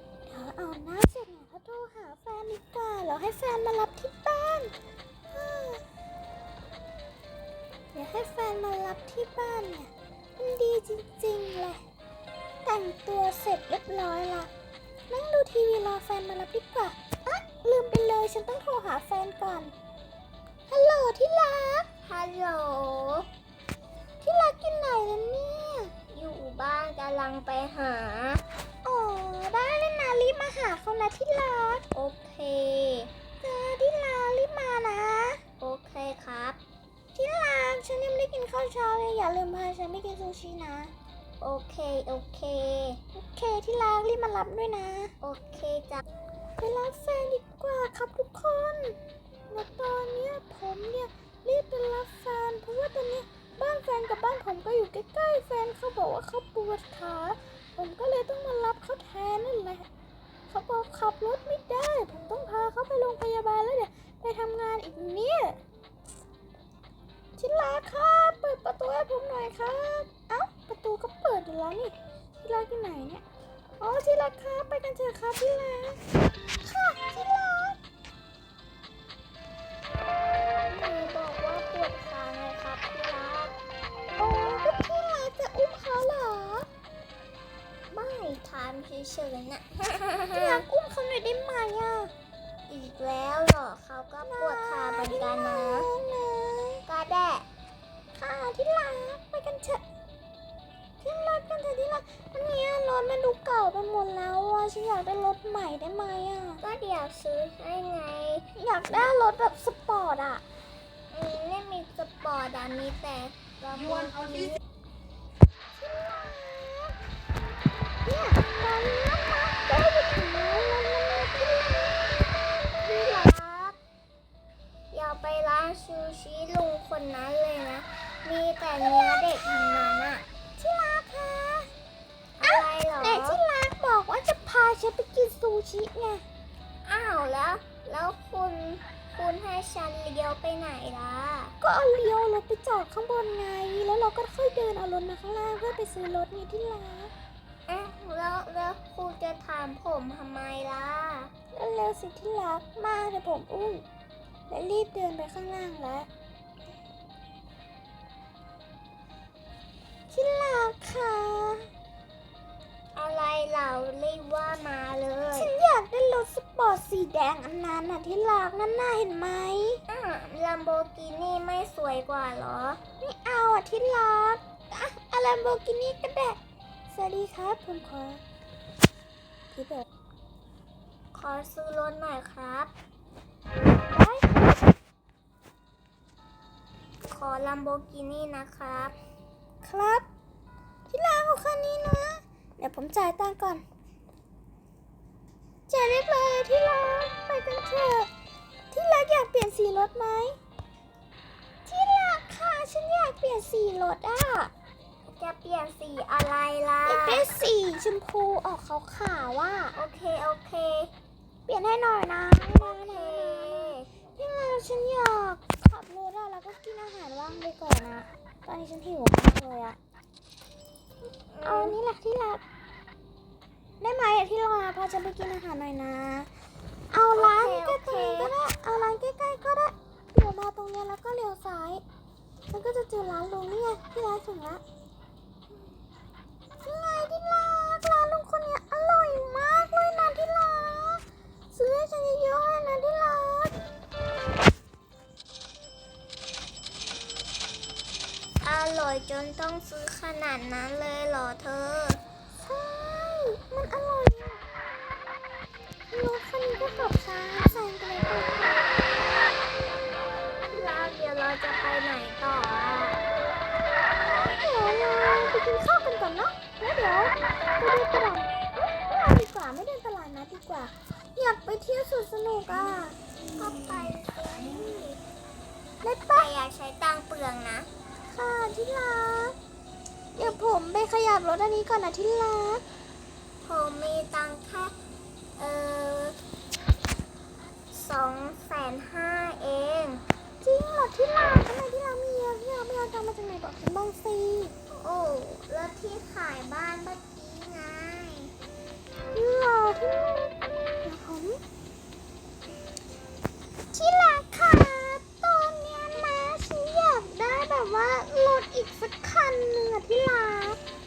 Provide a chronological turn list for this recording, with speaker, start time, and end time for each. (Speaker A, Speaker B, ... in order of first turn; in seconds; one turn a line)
Speaker A: 0.3-4.7
Speaker A: 5.3-5.8
Speaker A: 7.9-11.8
Speaker A: 12.6-14.5
Speaker A: 15.1-19.7
Speaker A: 20.7-21.9
Speaker B: 22.0-23.3
Speaker A: 24.2-25.9
Speaker B: 26.1-28.4
Speaker A: 28.8-31.9
Speaker B: 31.9-33.1
Speaker A: 33.4-35.4
Speaker B: 35.6-36.6
Speaker A: 37.1-40.9
Speaker B: 41.4-43.0
Speaker A: 43.1-45.1
Speaker B: 45.2-46.0
Speaker A: 46.6-49.0
Speaker A: 49.5-59.9
Speaker A: 60.5-65.6
Speaker A: 67.3-73.2
Speaker A: 73.8-76.0
Speaker A: 76.6-77.8
Speaker B: 80.7-83.5
Speaker A: 84.2-86.7
Speaker B: 87.9-90.6
Speaker A: 90.3-92.1
Speaker B: 92.7-95.9
Speaker A: 94.2-96.8
Speaker B: 96.8-97.5
Speaker A: 98.1-99.8
Speaker A: 101.0-106.6
Speaker B: 106.6-108.5
Speaker A: 108.5-110.4
Speaker B: 111.1-114.6
Speaker A: 115.8-117.0
Speaker A: 118.0-122.1
Speaker B: 122.8-123.8
Speaker B: 124.9-130.2
Speaker A: 130.6-131.7
Speaker B: 132.4-133.4
Speaker A: 132.4-136.2
Speaker B: 136.8-141.5
Speaker A: 141.6-147.1
Speaker B: 147.7-151.3
Speaker A: 151.5-153.8
Speaker A: 154.5-156.1
Speaker A: 160.1-161.7
Speaker B: 162.9-165.5
Speaker A: 165.3-169.8
Speaker B: 169.9-172.8
Speaker A: 173.0-178.2
Speaker A: 179.5-179.8
Speaker B: 181.1-182.7
Speaker A: 183.9-184.6
Speaker B: 187.1-188.9
Speaker A: 189.6-190.1
Speaker A: 190.9-193.6
Speaker A: 195.7-198.1
Speaker A: 198.7-200.4
Speaker A: 201.7-204.5
Speaker B: 205.2-207.2
Speaker A: 206.8-209.8
Speaker B: 209.7-210.9
Speaker A: 211.5-219.8
Speaker B: 212.6-213.9
Speaker B: 221.3-221.8
Speaker A: 221.4-222.4
Speaker A: 223.8-226.3
Speaker A: 226.9-231.8
Speaker B: 227.1-228.3
Speaker A: 232.5-234.6
Speaker A: 236.6-243.7
Speaker B: 248.4-252.0
Speaker A: 252.4-254.4
Speaker A: 255.9-258.7
Speaker B: 260.5-263.0
Speaker A: 264.0-272.9
Speaker B: 273.4-275.0
Speaker A: 275.8-276.3
Speaker B: 276.1-277.7
Speaker A: 278.1-279.4
Speaker A: 280.1-282.6
Speaker B: 283.4-284.7
Speaker B: 285.4-286.2
Speaker B: 287.7-290.0
Speaker A: 290.4-294.5
Speaker B: 294.7-298.3
Speaker A: 299.1-301.4
Speaker A: 303.7-310.6